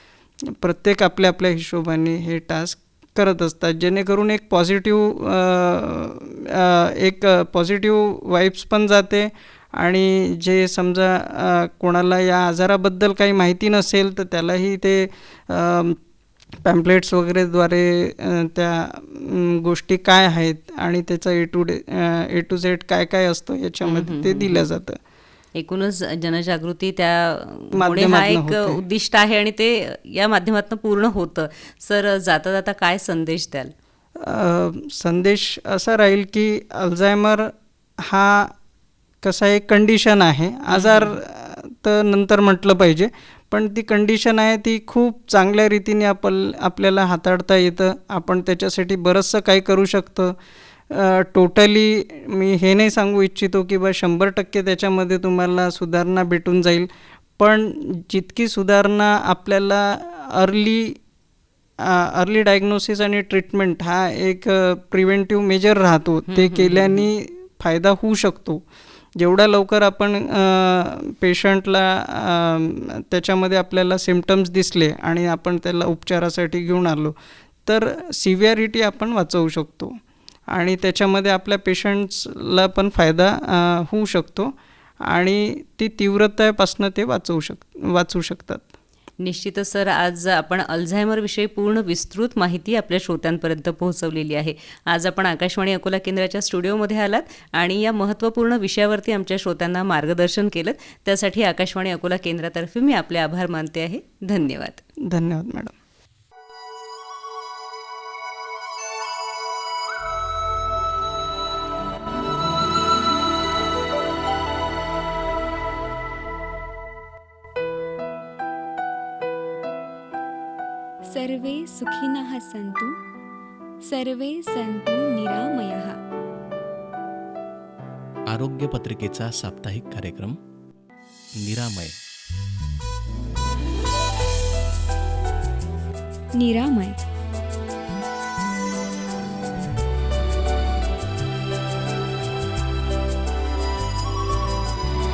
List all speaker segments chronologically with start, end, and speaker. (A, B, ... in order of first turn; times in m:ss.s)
0:00.4-0:16.0 A
0:16.6-0:25.0 A
0:23.8-0:24.7 B
0:25.5-0:33.7 B
0:27.7-0:28.8 A
0:34.2-0:38.5 A
0:39.2-0:50.3 A
0:40.7-0:41.2 B
0:50.9-1:01.0 A
1:01.8-1:08.6 A
1:06.3-1:07.0 B
1:09.2-1:17.1 A
1:17.6-1:28.7 A
1:29.2-1:44.8 B
1:45.1-1:45.7 A
2:01.1-2:03.0 C
2:03.9-2:06.0 C
2:08.3-2:10.4 D
2:11.4-2:11.9 D
2:16.4-2:17.0 C